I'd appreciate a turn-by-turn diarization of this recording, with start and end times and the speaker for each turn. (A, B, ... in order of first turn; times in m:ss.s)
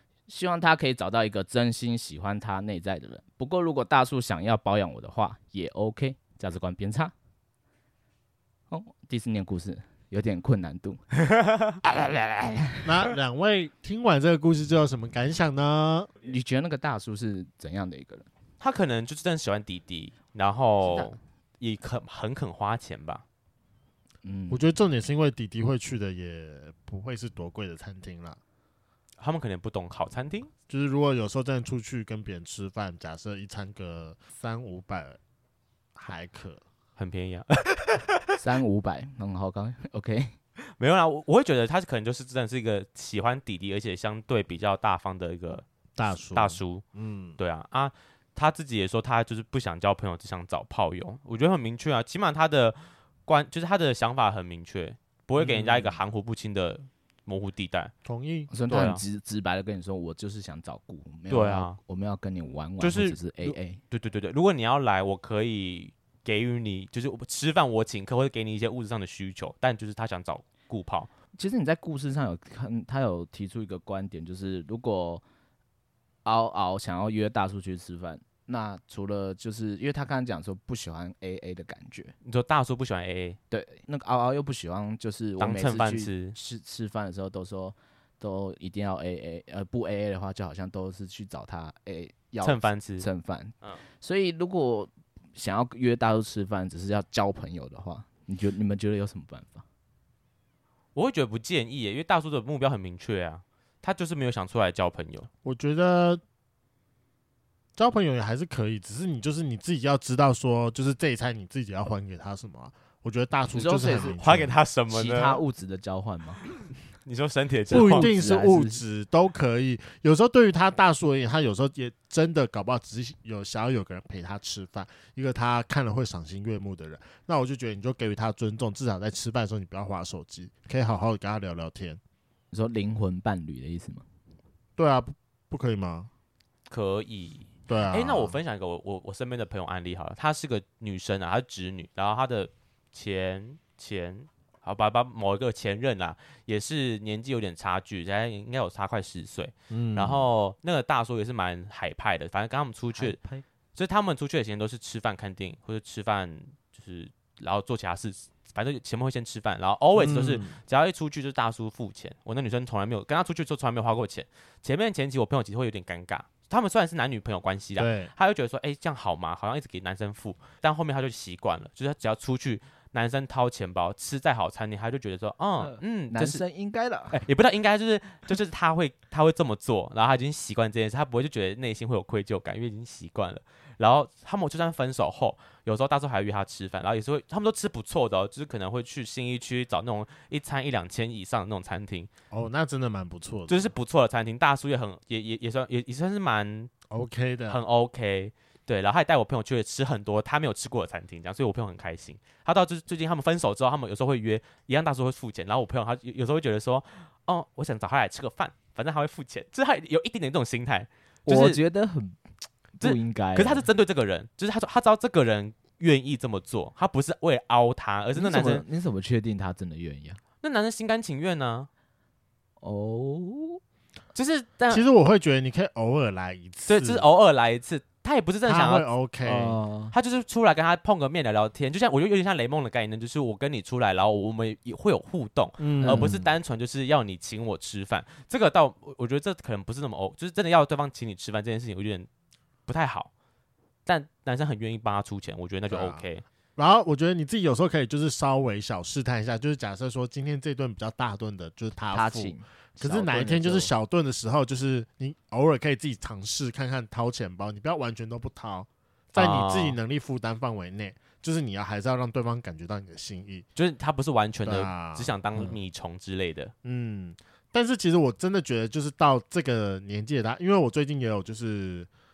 0:00.3-0:07.1 A
0:08.7-0:11.0 A
0:11.3-0:11.8 B
0:11.8-0:12.9 A
0:12.8-0:16.1 C
0:16.2-0:18.3 A
0:18.6-0:23.2 B
0:20.8-0:21.1 A
0:24.2-0:24.7 A
0:24.5-0:28.4 C
0:29.2-0:30.5 B
0:30.7-0:35.2 C
0:36.0-0:36.6 C
0:37.0-0:38.3 B
0:38.4-0:40.3 A
0:40.8-0:46.8 B
0:46.0-0:47.4 C
0:47.4-0:57.9 B
0:55.4-0:56.0 C
0:58.0-0:58.5 C
0:58.5-1:03.8 A
0:58.7-0:59.0 B
1:01.3-1:01.8 B
1:02.8-1:11.1 B
1:11.3-1:15.2 A
1:16.2-1:22.1 A
1:22.2-1:23.4 B
1:23.5-1:39.6 A
1:25.4-1:26.3 B
1:32.4-1:33.1 B
1:40.9-1:45.3 B
1:45.4-1:46.2 C
1:47.8-1:54.5 C
1:53.5-1:54.2 A
1:54.2-1:55.4 B
1:54.9-1:56.4 A
1:57.0-1:58.1 B
1:57.7-1:58.8 A
1:57.7-2:12.0 C
2:12.5-2:14.0 A
2:14.8-2:16.1 C
2:16.7-2:33.2 B
2:17.7-2:18.3 C
2:29.7-2:30.2 C
2:32.9-2:33.4 A
2:33.7-2:56.4 B
2:40.0-2:40.6 C
2:47.8-2:48.1 C
2:55.6-2:57.2 A
2:57.1-3:12.1 B
3:12.3-3:13.7 C
3:13.5-3:16.7 B
3:16.9-3:17.6 C
3:17.5-3:31.6 B
3:31.3-3:32.2 A
3:32.8-3:33.6 A
3:32.8-3:38.6 B
3:38.2-3:40.2 A
3:40.4-3:41.7 B
3:42.6-3:43.6 A
3:44.1-3:44.8 B
3:44.7-3:47.0 C
3:46.7-3:48.8 B
3:48.4-3:49.6 C
3:49.2-3:49.9 A
3:49.9-4:02.1 B
3:55.6-3:56.2 C
3:55.8-3:56.2 A
4:02.7-4:03.1 B
4:03.8-4:06.2 B
4:05.7-4:06.0 C
4:06.6-4:23.4 C
4:11.9-4:13.7 A
4:19.2-4:19.8 B
4:23.5-4:26.5 B
4:24.4-4:25.1 C
4:26.6-4:31.9 C